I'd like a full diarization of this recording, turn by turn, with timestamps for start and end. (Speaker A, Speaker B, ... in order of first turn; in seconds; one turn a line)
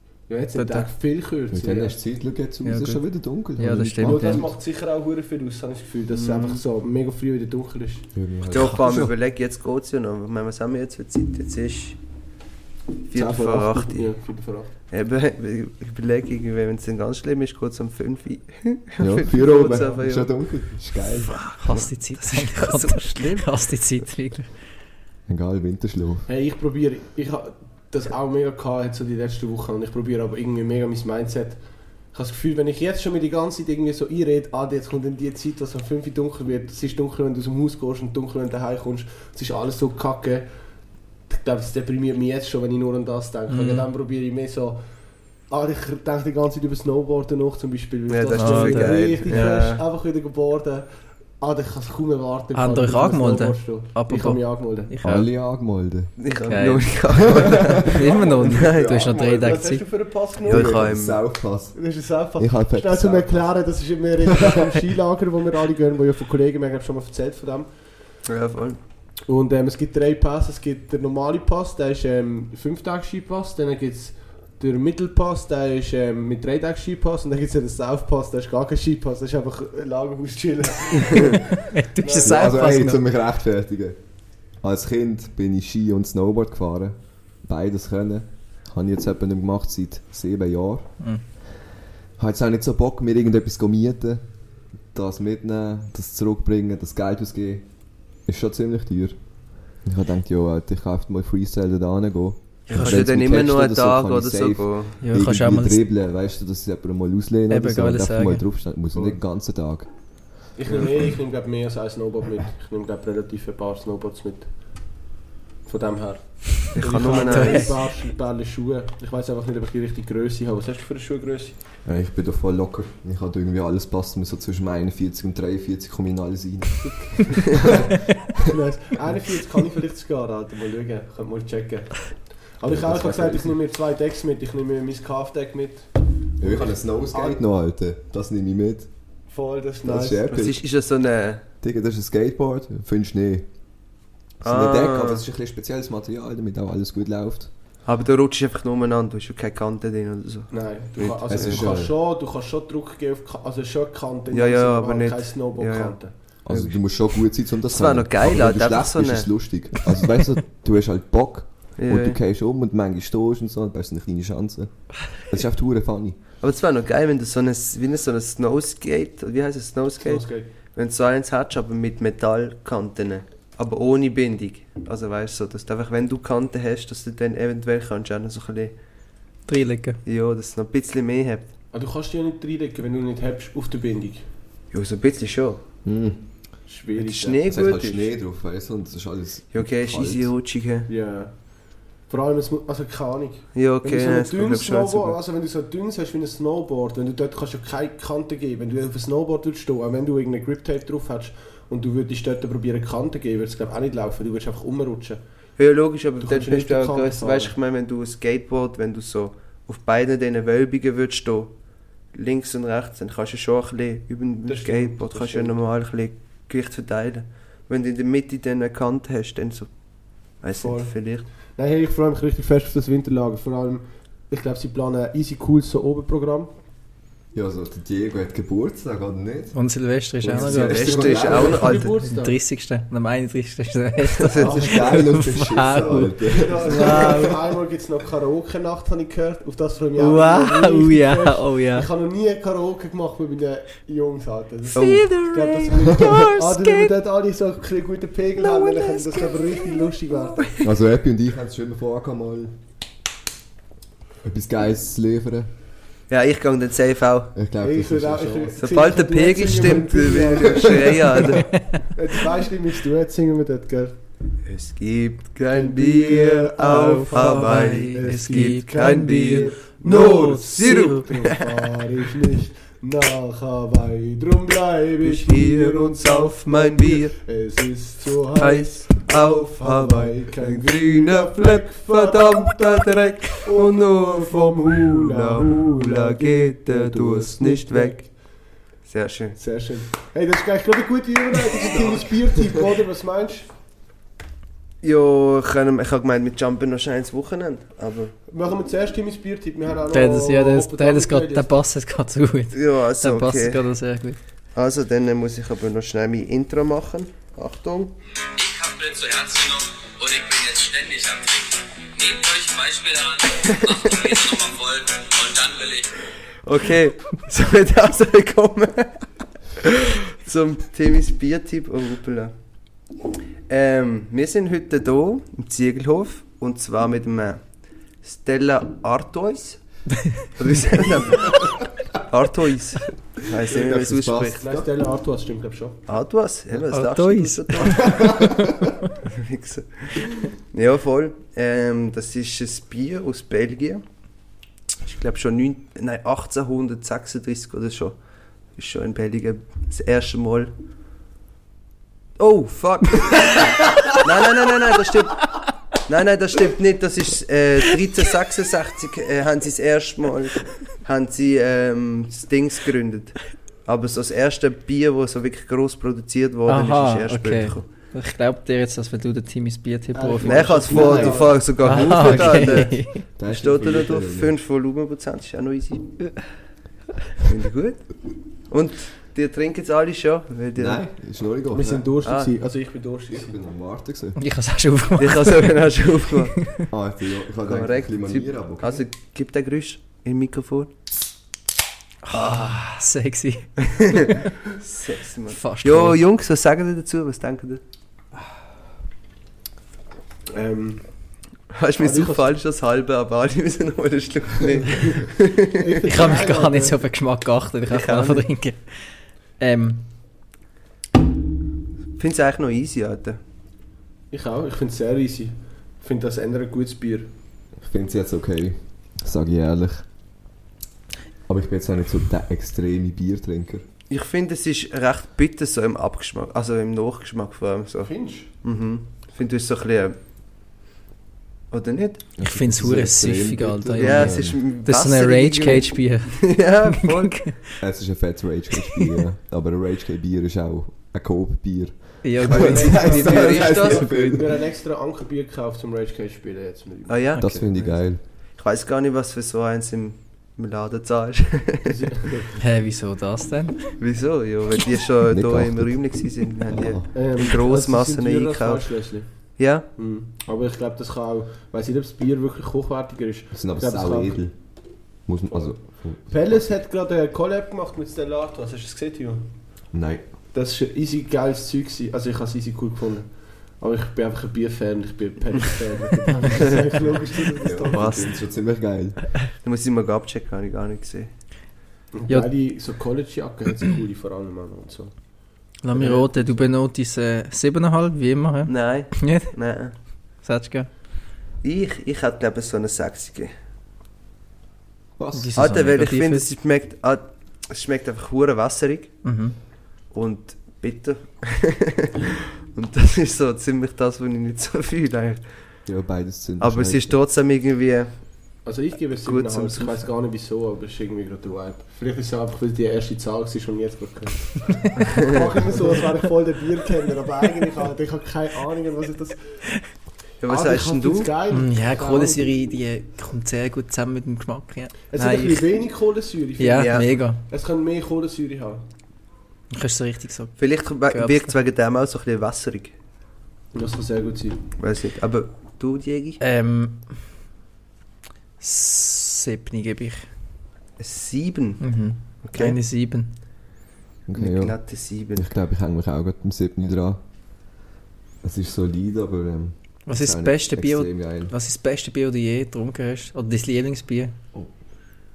Speaker A: 0.3-2.0
Speaker B: 0.6-0.9
Speaker C: 1.5-4.5
Speaker B: 2.6-4.4
Speaker A: 4.0-8.1
Speaker D: 6.1-6.6
Speaker C: 8.1-9.1
Speaker D: 8.5-12.0
Speaker D: 13.1-14.3
Speaker C: 13.1-13.9
Speaker A: 13.9-14.7
Speaker D: 14.9-23.4
Speaker C: 19.0-21.9
Speaker B: 21.6-24.6
Speaker C: 25.3-26.3
Speaker A: 26.3-54.9
Speaker B: 43.5-43.9
Speaker D: 48.1-49.8
Speaker B: 48.3-49.2
Speaker B: 52.5-55.3
Speaker C: 55.0-56.2
Speaker D: 56.2-58.9
Speaker B: 56.5-59.9
Speaker C: 57.1-59.6
Speaker A: 58.0-58.5
Speaker A: 59.0-61.1
Speaker D: 60.5-61.4
Speaker C: 60.5-63.7
Speaker A: 61.7-68.0
Speaker D: 68.3-68.8
Speaker A: 69.3-82.6
Speaker B: 81.7-83.0
Speaker C: 82.2-91.4
Speaker C: 92.2-110.4
Speaker D: 102.7-105.0
Speaker B: 105.0-105.8
Speaker B: 107.5-108.5
Speaker A: 108.9-109.2
Speaker A: 110.5-115.0
Speaker A: 115.7-121.5
Speaker D: 116.7-117.8
Speaker B: 117.1-117.8
Speaker C: 121.8-127.9
Speaker A: 128.5-137.4
Speaker C: 132.6-133.6
Speaker C: 136.4-139.3
Speaker A: 139.3-140.5
Speaker C: 139.8-140.6
Speaker D: 140.3-141.4
Speaker C: 141.6-147.5
Speaker D: 144.4-145.2
Speaker D: 147.8-151.8
Speaker A: 150.5-156.2
Speaker C: 151.2-151.9
Speaker D: 154.3-159.7
Speaker C: 156.4-166.2
Speaker D: 161.8-162.2
Speaker D: 166.4-178.8
Speaker A: 170.0-170.5
Speaker B: 179.5-180.0
Speaker D: 180.1-181.5
Speaker A: 181.7-184.3
Speaker D: 184.7-185.6
Speaker C: 185.8-190.4
Speaker A: 186.7-187.4
Speaker D: 187.0-188.1
Speaker D: 189.5-190.9
Speaker A: 190.9-205.6
Speaker D: 193.6-195.2
Speaker D: 205.6-221.3
Speaker A: 206.2-207.6
Speaker A: 214.5-215.6
Speaker A: 220.6-226.5
Speaker C: 227.3-231.8
Speaker B: 229.5-237.3
Speaker D: 230.3-232.0
Speaker A: 231.1-232.4
Speaker D: 234.2-234.8
Speaker A: 234.4-235.3
Speaker C: 234.4-237.3
Speaker A: 236.2-250.5
Speaker B: 240.0-241.9
Speaker D: 244.8-245.2
Speaker B: 244.8-246.9
Speaker D: 248.6-249.6
Speaker D: 250.4-250.7
Speaker C: 250.6-252.6
Speaker C: 254.2-255.5
Speaker D: 256.1-257.4
Speaker C: 257.4-258.6
Speaker A: 257.6-261.2
Speaker D: 258.6-261.6
Speaker A: 261.9-264.0
Speaker D: 264.4-271.5
Speaker A: 265.5-288.4
Speaker B: 266.6-271.0
Speaker D: 275.0-277.2
Speaker D: 278.4-289.4
Speaker A: 289.4-293.5
Speaker D: 291.7-292.0
Speaker D: 294.8-298.2
Speaker A: 298.3-301.5
Speaker B: 299.9-304.2
Speaker D: 302.5-307.9
Speaker E: 308.4-316.0
Speaker D: 313.5-313.9
Speaker D: 316.4-319.2
Speaker D: 320.2-322.9
Speaker D: 323.5-334.4
Speaker C: 333.4-334.7
Speaker A: 334.4-335.8
Speaker D: 335.9-338.4
Speaker B: 336.7-338.3
Speaker D: 339.0-343.8
Speaker D: 344.8-350.5
Speaker D: 352.2-367.9
Speaker B: 366.5-370.7
Speaker A: 369.9-371.5
Speaker D: 370.2-376.2
Speaker C: 370.7-374.3
Speaker B: 371.6-373.1
Speaker D: 377.2-380.8
Speaker C: 380.6-381.9
Speaker A: 381.5-383.4
Speaker D: 382.1-382.3
Speaker C: 383.1-384.2
Speaker B: 384.2-385.8
Speaker D: 385.0-386.6
Speaker C: 386.7-388.9
Speaker D: 387.4-390.7
Speaker B: 392.0-394.2
Speaker D: 392.1-392.7
Speaker D: 394.5-397.6
Speaker B: 395.3-396.0
Speaker A: 400.3-402.3
Speaker D: 401.5-405.5
Speaker A: 405.5-406.8
Speaker B: 405.9-409.9
Speaker D: 407.7-408.2
Speaker D: 412.0-413.2
Speaker A: 414.1-417.1
Speaker C: 417.6-419.9
Speaker C: 421.3-423.6
Speaker D: 423.9-430.0
Speaker A: 427.8-428.3
Speaker D: 431.5-432.3
Speaker C: 432.2-434.4
Speaker B: 432.2-437.6
Speaker D: 433.8-437.4
Speaker C: 437.6-444.4
Speaker B: 442.0-443.7
Speaker D: 442.3-443.9
Speaker A: 442.3-447.7
Speaker D: 446.9-451.7
Speaker B: 447.1-447.4
Speaker C: 447.2-448.0
Speaker A: 451.7-452.3
Speaker B: 452.4-453.8
Speaker D: 453.8-459.7
Speaker C: 455.1-456.9
Speaker A: 456.9-464.8
Speaker C: 463.3-466.5
Speaker A: 465.3-469.8
Speaker C: 469.7-470.1
Speaker A: 470.3-477.9
Speaker C: 477.4-479.2
Speaker D: 477.7-478.2
Speaker D: 479.4-481.1
Speaker A: 481.9-486.4
Speaker B: 485.6-490.9
Speaker D: 488.5-489.7
Speaker D: 491.4-493.3
Speaker C: 495.0-495.9
Speaker B: 495.1-496.3
Speaker D: 495.4-501.7
Speaker B: 499.0-499.4
Speaker D: 502.5-505.7
Speaker C: 505.7-507.0
Speaker D: 506.4-509.9
Speaker A: 508.4-522.3
Speaker D: 520.2-521.1
Speaker B: 521.3-525.5
Speaker A: 524.9-528.7
Speaker B: 526.4-527.2
Speaker D: 526.6-526.9
Speaker B: 529.5-531.3
Speaker D: 530.4-532.8
Speaker A: 533.5-534.4
Speaker D: 534.6-536.2
Speaker B: 536.2-537.2
Speaker B: 538.4-540.2
Speaker D: 540.8-542.6
Speaker B: 541.6-543.2
Speaker C: 544.1-547.0
Speaker D: 544.1-545.3
Speaker C: 548.2-551.3
Speaker B: 549.9-554.1